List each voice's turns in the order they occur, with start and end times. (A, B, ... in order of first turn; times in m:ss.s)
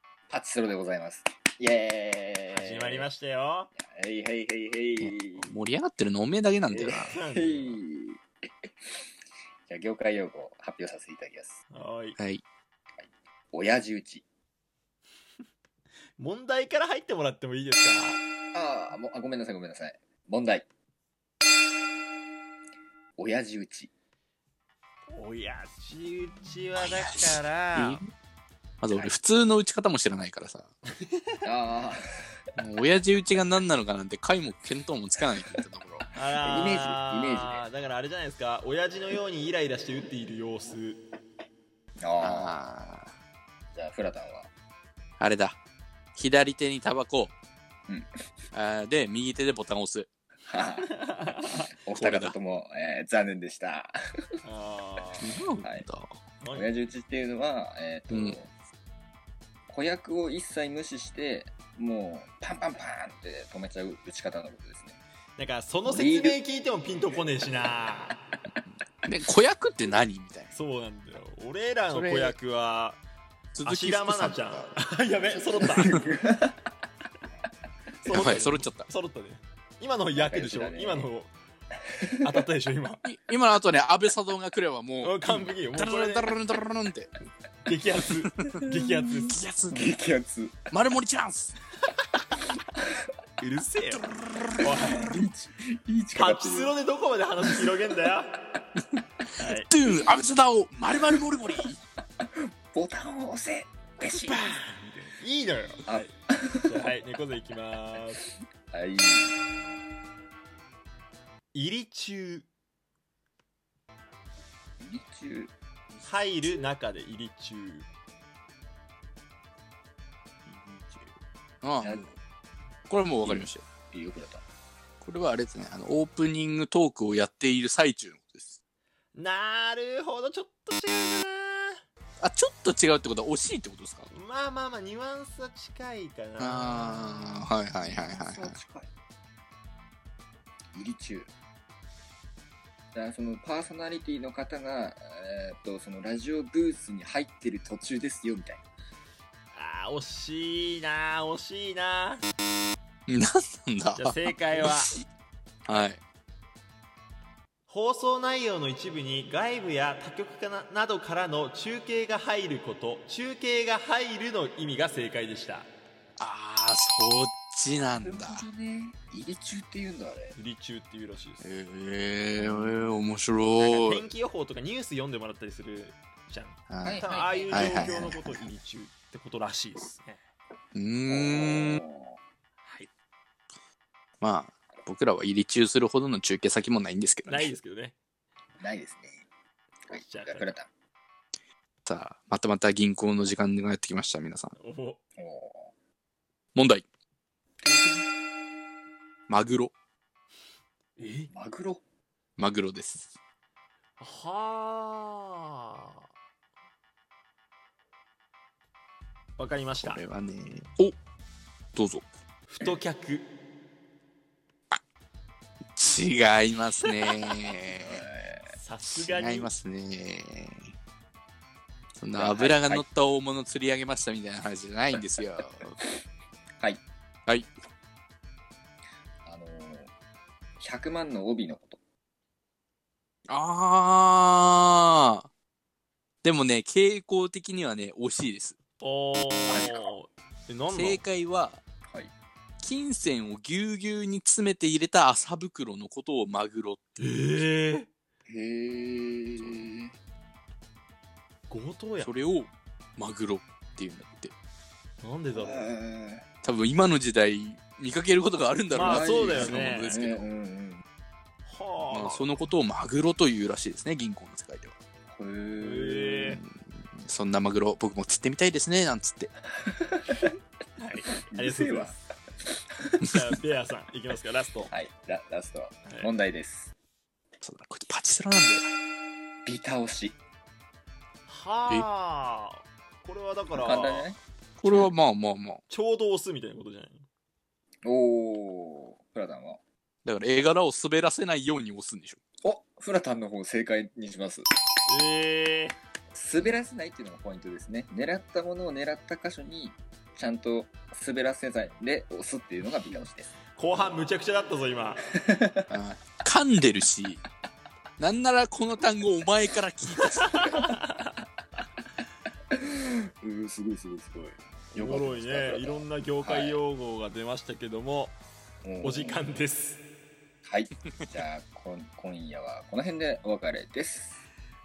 0:00.3-0:03.1 A
0:02.5-0:03.7 B
0:03.8-0:05.5 A
0:05.0-0:07.2 C
0:06.7-0:09.0 A
0:06.9-0:07.8 B
0:09.7-0:11.6 A
0:11.7-0:12.2 B
0:12.2-0:12.4 C
0:13.0-0:14.2 A
0:16.2-0:18.2 B
0:18.5-0:20.7 A
0:23.2-0:23.9 A
0:25.1-0:28.0 B
0:26.8-0:28.1 C
0:28.8-0:30.7 C
0:31.0-0:31.3 B
0:31.4-0:32.2 A
0:32.6-0:36.1 C
0:35.4-0:37.6 A
0:36.2-0:41.0 B
0:42.0-0:42.5 A
0:42.2-0:43.1 C
0:43.7-0:44.5 A
0:45.2-0:45.6 C
0:46.2-0:47.3 C
0:47.9-0:48.2 A
0:48.5-0:50.1 C
0:50.4-0:50.9 A
0:50.9-0:51.7 B
0:51.4-0:53.9 A
0:51.9-0:52.4 C
0:54.4-0:55.4 B
0:55.2-0:56.2 C
0:55.6-0:55.9 A
0:56.4-0:56.7 B
0:56.5-0:58.5 A
0:58.1-0:58.4 C
0:59.7-1:05.0 A
1:05.4-1:08.2 B
1:05.8-1:06.4 A
1:09.0-1:10.5 C
1:10.5-1:13.0 B
1:11.9-1:12.4 C
1:13.5-1:14.8 C
1:13.6-1:16.1 B
1:15.2-1:16.6 A
1:18.0-1:21.3 B
1:18.1-1:18.9 C
1:20.1-1:21.1 A
1:22.0-1:22.4 A
1:22.2-1:23.0 B
1:23.0-1:27.1 C
1:25.0-1:26.4 B
1:27.6-1:29.4 B
1:28.7-1:29.1 A
1:29.3-1:29.8 C
1:29.7-1:30.7 A
1:30.7-1:31.6 C
1:33.4-1:34.1 B
1:33.9-1:35.2 C
1:34.6-1:35.1 B
1:34.8-1:36.7 A
1:36.1-1:38.3 B
1:39.4-1:39.7 B
1:39.4-1:41.8 C
1:42.2-1:44.5 A
1:44.2-1:48.2 B
1:45.9-1:46.7 A
1:48.2-1:49.3 A
1:51.5-1:52.5 B
1:54.8-1:55.5 A
1:56.0-1:57.9 B
2:00.5-2:00.9 C
2:01.6-2:02.1 C
2:01.8-2:02.2 A
2:02.9-2:03.6 C
2:03.2-2:04.4 A
2:05.0-2:08.6 C
2:09.2-2:11.8 B
2:12.2-2:14.1 C
2:14.1-2:17.5 B
2:16.4-2:18.6 C
2:17.9-2:18.9 A
2:20.7-2:21.3 A
2:22.9-2:28.6 A
2:29.5-2:32.2 B
2:33.1-2:34.9 C
2:34.0-2:34.9 B
2:35.7-2:36.0 C
2:37.7-2:45.7 B
2:46.2-2:48.4 C
2:48.0-2:50.4 A
2:50.4-2:51.5 B
2:51.4-2:54.1 C
2:53.6-3:00.2 B
2:56.7-2:58.2 C
2:56.8-2:58.0 A
3:00.7-3:01.8 C
3:01.1-3:02.2 A
3:02.6-3:02.9 B
3:04.2-3:07.5 C
3:07.3-3:08.0 B
3:08.6-3:09.2 A
3:09.9-3:10.7 A
3:10.0-3:10.5 B
3:11.8-3:14.6 C
3:14.6-3:15.0 B
3:15.2-3:15.7 A
3:16.6-3:16.8 C
3:17.6-3:18.1 A
3:19.3-3:19.7 C
3:21.0-3:21.3 B
3:21.3-3:21.8 A
3:22.4-3:23.1 C
3:24.0-3:26.1 B
3:29.4-3:30.0 B
3:29.8-3:31.0 C
3:31.8-3:32.0 C
3:32.5-3:33.3 B
3:35.8-3:38.1 C
3:37.8-3:38.5 A
3:38.5-3:39.5 B
3:38.9-3:40.7 C
3:42.0-3:45.8 C
3:42.2-3:42.8 A
3:49.2-3:49.9 A
3:50.6-3:51.8 A
3:53.3-3:55.3 C
3:56.2-3:58.6 C
3:58.8-4:01.0 B
3:59.5-3:59.9 A
4:00.7-4:01.6 C
4:02.6-4:06.8 C
4:07.0-4:07.9 B
4:08.3-4:09.9 A
4:09.4-4:09.7 C
4:11.5-4:12.1 B
4:12.0-4:14.3 C
4:15.0-4:15.7 B
4:15.3-4:16.2 A
4:16.4-4:20.3 C
4:18.7-4:19.9 B
4:18.8-4:20.8 A
4:21.4-4:22.4 B
4:21.9-4:24.8 C
4:25.1-4:26.4 A
4:25.6-4:26.4 B
4:26.3-4:29.3 C
4:29.5-4:30.3 A
4:30.8-4:32.0 B
4:31.3-4:33.1 A
4:33.0-4:34.7 B
4:34.7-4:36.7 A
4:37.4-4:38.7 C
4:39.4-4:40.2 A
4:41.3-4:44.2 B
4:43.5-4:44.9 A
4:44.6-4:45.6 C
4:45.7-4:47.1 B
4:47.8-4:49.6 A
4:50.0-4:52.2 C
4:52.4-4:54.5 A
4:54.9-4:55.8 B
4:56.1-5:03.9 A
5:03.6-5:05.0 B
5:05.2-5:05.7 A
5:05.7-5:07.2 C
5:08.0-5:10.7 C
5:10.3-5:11.1 B
5:12.5-5:16.6 A
5:14.8-5:18.2 B
5:18.6-5:19.3 A
5:18.8-5:19.8 B
5:20.4-5:24.2 A